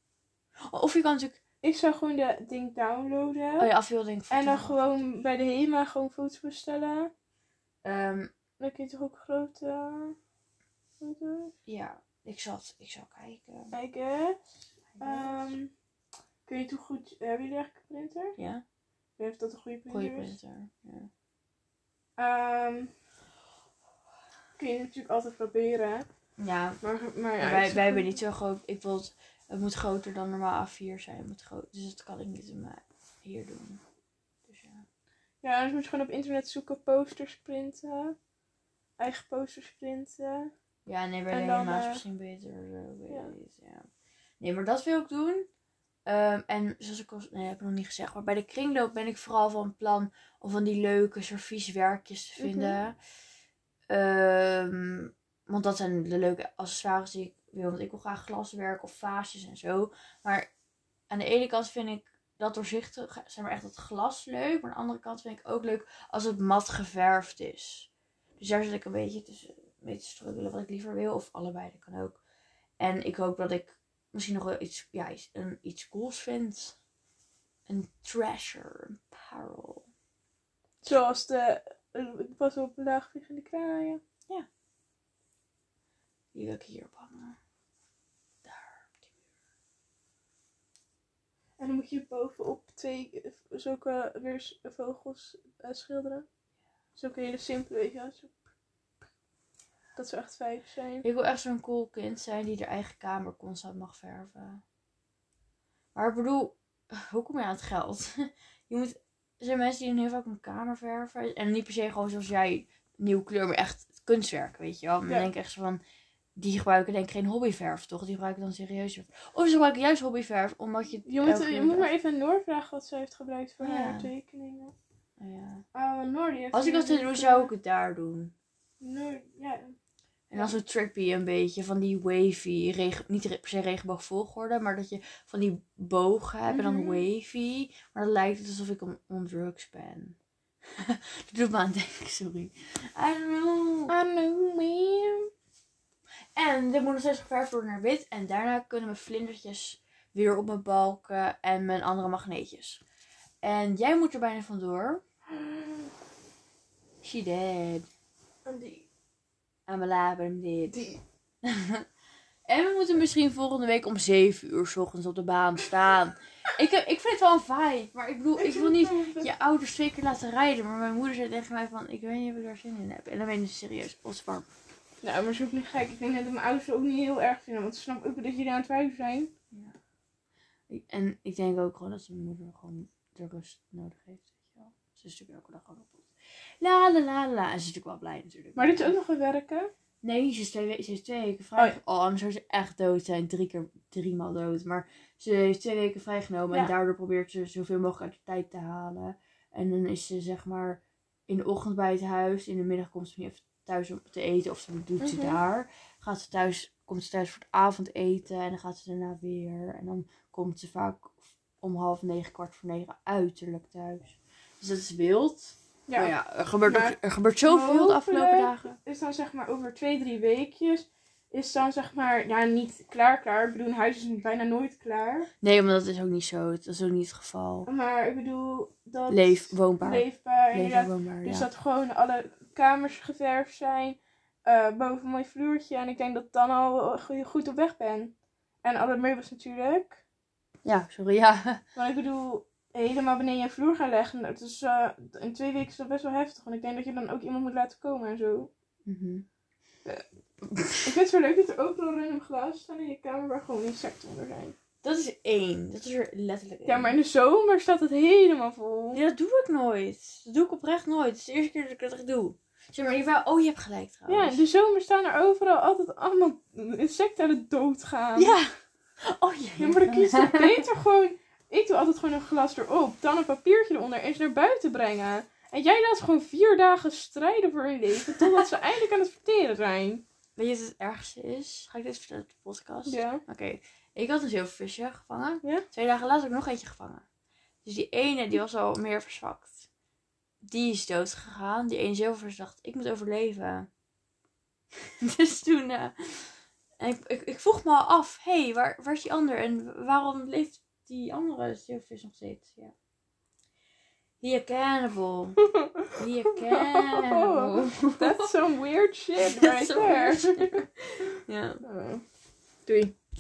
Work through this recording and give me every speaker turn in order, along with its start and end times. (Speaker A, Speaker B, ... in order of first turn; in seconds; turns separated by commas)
Speaker A: 0.7-1.4, Speaker B: 1.6-3.7, Speaker A: 3.6-5.0, Speaker B: 4.3-7.1, Speaker A: 7.8-8.3, Speaker B: 8.6-10.2, Speaker B: 11.0-11.5, Speaker A: 11.6-13.7, Speaker B: 13.7-14.4, Speaker A: 14.9-15.5, Speaker B: 15.0-15.7, Speaker B: 16.4-18.3, Speaker A: 18.4-18.6, Speaker B: 19.2-20.3, Speaker A: 19.9-21.1, Speaker B: 22.2-22.9, Speaker B: 24.6-26.1, Speaker A: 26.4-26.8, Speaker B: 26.8-28.2, Speaker A: 27.4-33.8, Speaker A: 34.5-34.8, Speaker B: 35.4-38.1, Speaker B: 39.0-40.5, Speaker A: 40.9-43.9, Speaker B: 41.3-42.0, Speaker A: 44.4-45.5, Speaker A: 46.0-53.0, Speaker B: 52.4-52.8, Speaker A: 53.9-60.5, Speaker A: 61.1-72.2, Speaker A: 72.8-76.8, Speaker A: 77.7-79.9, Speaker B: 80.8-84.0, Speaker A: 86.3-87.4, Speaker A: 88.4-89.1, Speaker B: 91.6-96.2, Speaker B: 97.0-98.4, Speaker B: 99.9-101.0, Speaker A: 101.0-104.6, Speaker A: 105.9-115.8, Speaker A: 116.3-121.9, Speaker B: 121.0-124.7, Speaker A: 123.6-124.1, Speaker A: 125.2-125.6, Speaker B: 125.7-127.5, Speaker A: 126.5-128.3, Speaker B: 128.8-129.7, Speaker A: 130.3-140.2, Speaker B: 136.5-137.1, Speaker A: 140.8-143.9, Speaker B: 143.9-145.3, Speaker A: 146.3-152.8, Speaker A: 153.4-155.0, Speaker B: 155.3-155.8, Speaker A: 157.0-157.9, Speaker B: 158.4-158.8, Speaker A: 159.7-161.8, Speaker A: 162.5-174.5, Speaker B: 168.4-169.3, Speaker B: 175.0-179.3, Speaker A: 180.7-186.1, Speaker A: 186.6-188.9, Speaker B: 188.6-189.7, Speaker A: 190.0-218.8, Speaker B: 205.0-205.4, Speaker B: 215.9-225.3, Speaker A: 225.4-227.7, Speaker B: 227.7-240.0, Speaker A: 229.1-231.5, Speaker A: 240.6-241.6, Speaker B: 241.7-248.5, Speaker A: 248.8-249.2, Speaker A: 250.4-250.8, Speaker B: 250.8-254.6, Speaker A: 254.8-257.0, Speaker B: 256.6-259.0, Speaker A: 258.9-264.4, Speaker B: 264.1-268.4, Speaker A: 268.1-270.6, Speaker B: 269.6-280.0, Speaker A: 280.4-287.0, Speaker B: 282.9-283.2, Speaker A: 287.6-289.6, Speaker A: 290.4-293.7, Speaker A: 295.0-302.7, Speaker A: 304.2-305.4, Speaker A: 305.9-308.0, Speaker B: 306.5-310.6, Speaker A: 309.2-310.7, Speaker A: 311.2-311.6, Speaker B: 311.6-312.0, Speaker B: 312.6-312.9